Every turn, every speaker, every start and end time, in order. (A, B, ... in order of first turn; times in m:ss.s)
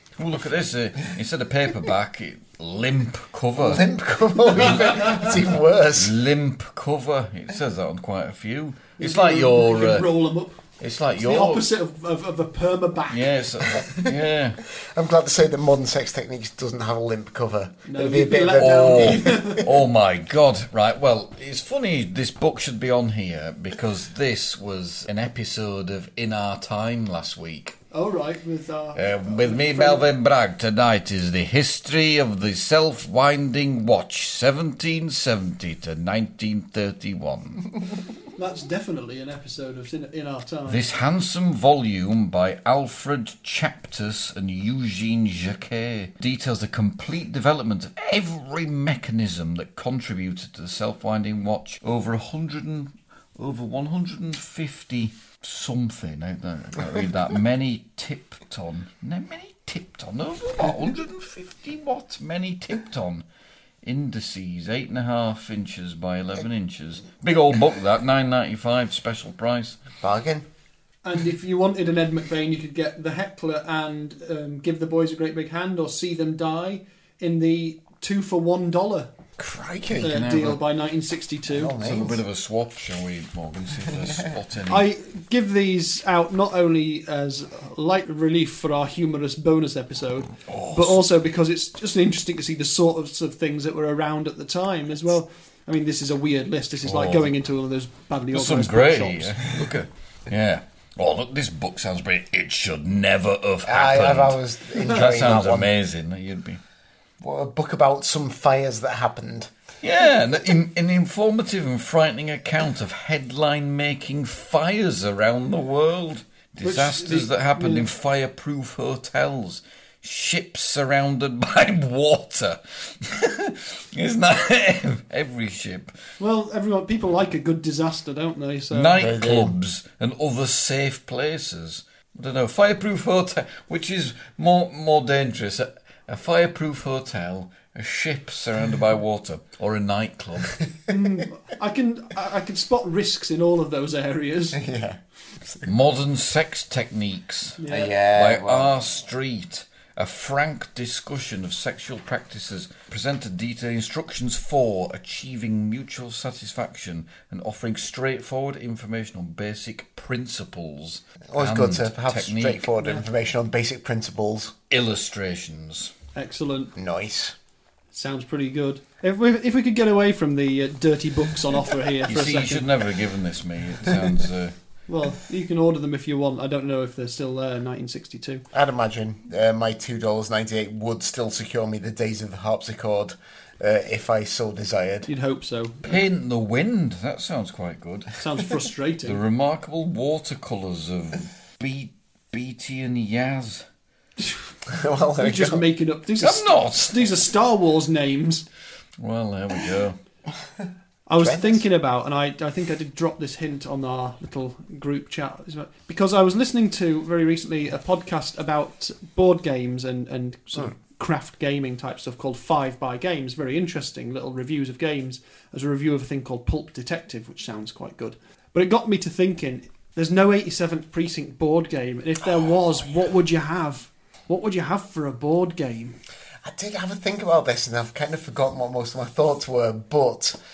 0:00.2-0:03.9 A
0:03.6-0:06.2 B
0:04.6-0:05.3 A
0:05.9-0:10.1 A
0:09.0-0:10.6 C
0:10.8-0:11.7 A
0:11.2-0:13.3 C
0:13.1-0:14.6 A
0:13.8-0:14.1 B
0:14.7-0:19.6 B
0:17.8-0:19.7 C
0:18.6-0:27.8 A
0:27.9-0:30.1 C
0:28.9-0:37.8 A
0:38.4-0:40.8 C
0:40.7-1:03.2 A
1:03.8-1:09.8 A
1:10.0-1:10.4 B
1:11.0-1:19.1 C
1:19.4-1:20.2 B
1:20.0-1:21.7 C
1:20.0-1:20.6 A
1:21.5-1:22.2 B
1:21.8-1:24.9 A
1:24.7-1:39.4 C
1:30.5-1:31.0 A
1:36.8-1:37.3 A
1:38.3-1:46.6 A
1:43.6-1:45.7 B
1:47.2-1:49.5 B
1:49.8-2:06.0 A
1:56.6-1:57.9 C
2:06.2-2:08.9 C
2:08.7-2:20.6 A
2:09.0-2:09.6 B
2:20.9-2:24.6 C
2:24.6-2:25.7 B
2:25.6-2:42.6 A
2:27.6-2:27.9 C
2:27.7-2:28.7 B
2:41.3-2:44.5 B
2:44.7-2:45.9 A
2:46.1-2:46.7 C
2:46.7-2:47.3 B
2:47.9-2:52.7 C
2:52.1-2:54.5 A
2:54.9-2:58.4 C
2:58.5-3:05.1 B
3:05.1-3:06.0 C
3:05.8-3:08.2 A
3:08.2-3:09.2 C
3:09.0-3:13.6 A
3:14.7-3:15.6 B
3:15.2-3:18.4 C
3:16.2-3:17.1 A
3:19.0-3:20.0 A
3:21.1-3:46.0 C
3:21.2-3:21.6 B
3:46.4-3:50.3 B